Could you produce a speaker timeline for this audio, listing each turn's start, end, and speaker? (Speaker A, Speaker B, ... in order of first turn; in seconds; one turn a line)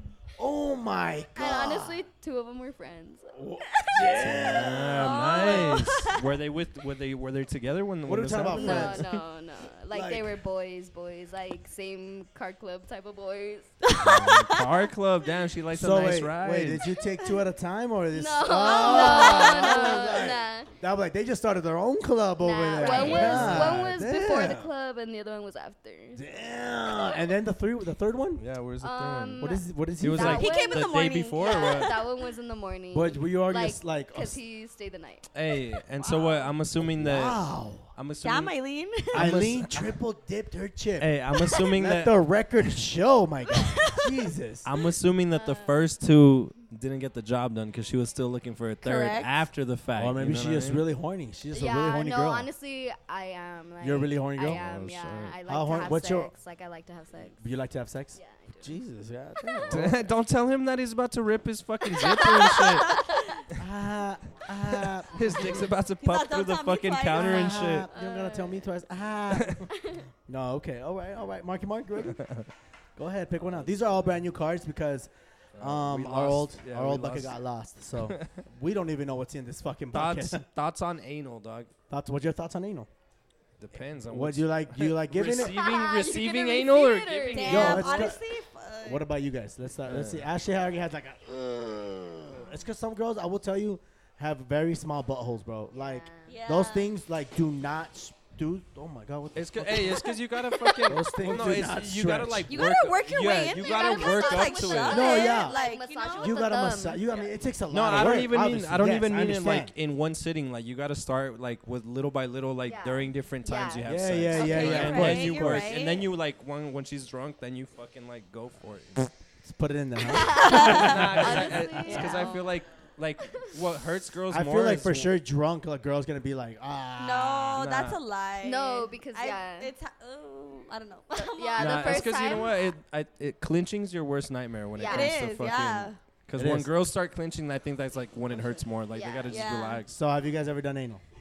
Speaker A: 0.4-2.0
Speaker B: 1.4-3.4
Speaker A: 3.4-5.8
Speaker C: 4.0-6.2
Speaker D: 4.2-9.2
Speaker A: 8.1-9.1
Speaker B: 8.5-14.2
Speaker A: 9.9-10.3
Speaker C: 13.8-14.9
Speaker D: 14.0-16.9
Speaker A: 15.7-24.7
Speaker B: 18.1-20.7
Speaker C: 18.6-20.2
Speaker B: 22.4-26.2
Speaker C: 22.8-23.2
Speaker D: 22.8-23.9
Speaker A: 26.1-28.4
Speaker D: 28.4-31.9
Speaker B: 28.8-35.3
Speaker A: 29.4-30.5
Speaker C: 30.2-32.1
Speaker A: 32.9-34.4
Speaker D: 35.3-37.4
Speaker B: 36.0-36.5
Speaker A: 36.8-37.9
Speaker D: 37.9-38.5
Speaker C: 38.2-39.3
Speaker D: 39.1-39.9
Speaker A: 39.1-44.7
Speaker D: 41.0-42.1
Speaker C: 43.5-44.2
Speaker D: 44.6-50.8
Speaker B: 45.3-45.8
Speaker C: 48.8-49.4
Speaker A: 50.0-52.5
Speaker B: 51.5-57.4
Speaker A: 53.8-54.6
Speaker D: 54.4-55.4
Speaker A: 55.5-56.3
Speaker A: 57.4-60.1
Speaker B: 58.1-58.8
Speaker D: 59.7-63.6
Speaker C: 62.1-63.0
Speaker B: 62.9-63.2
Speaker A: 63.5-65.7
Speaker D: 64.7-67.9
Speaker C: 66.0-67.8
Speaker A: 67.1-69.7
Speaker B: 67.9-68.7
Speaker D: 69.3-69.6
Speaker B: 69.7-70.0
Speaker A: 70.3-72.2
Speaker D: 72.2-72.5
Speaker A: 73.0-80.4
Speaker D: 75.6-77.3
Speaker D: 78.0-78.4
Speaker D: 79.9-81.7
Speaker A: 81.9-82.9
Speaker D: 83.6-88.1
Speaker A: 84.0-85.7
Speaker B: 85.3-88.1
Speaker C: 87.3-89.0
Speaker A: 87.5-88.2
Speaker A: 88.8-100.2
Speaker D: 89.9-90.3
Speaker B: 95.7-96.4
Speaker C: 96.3-96.9
Speaker D: 99.3-105.1
Speaker C: 100.3-100.9
Speaker A: 100.8-102.5
Speaker C: 102.5-106.4
Speaker B: 103.6-107.1
Speaker A: 104.9-109.7
Speaker D: 107.7-119.1
Speaker B: 112.7-114.9
Speaker A: 113.8-115.8
Speaker C: 114.3-116.1
Speaker A: 119.4-122.2
Speaker B: 120.1-122.5
Speaker C: 120.2-122.4
Speaker D: 120.6-125.2
Speaker B: 123.2-123.5
Speaker A: 124.3-127.7
Speaker C: 127.0-132.5
Speaker D: 127.6-128.0
Speaker B: 128.4-129.7
Speaker B: 131.1-132.6
Speaker D: 131.6-139.9
Speaker B: 134.8-135.1
Speaker C: 134.9-136.0
Speaker A: 136.3-136.7
Speaker B: 138.9-139.4
Speaker C: 139.3-139.8
Speaker A: 139.9-141.0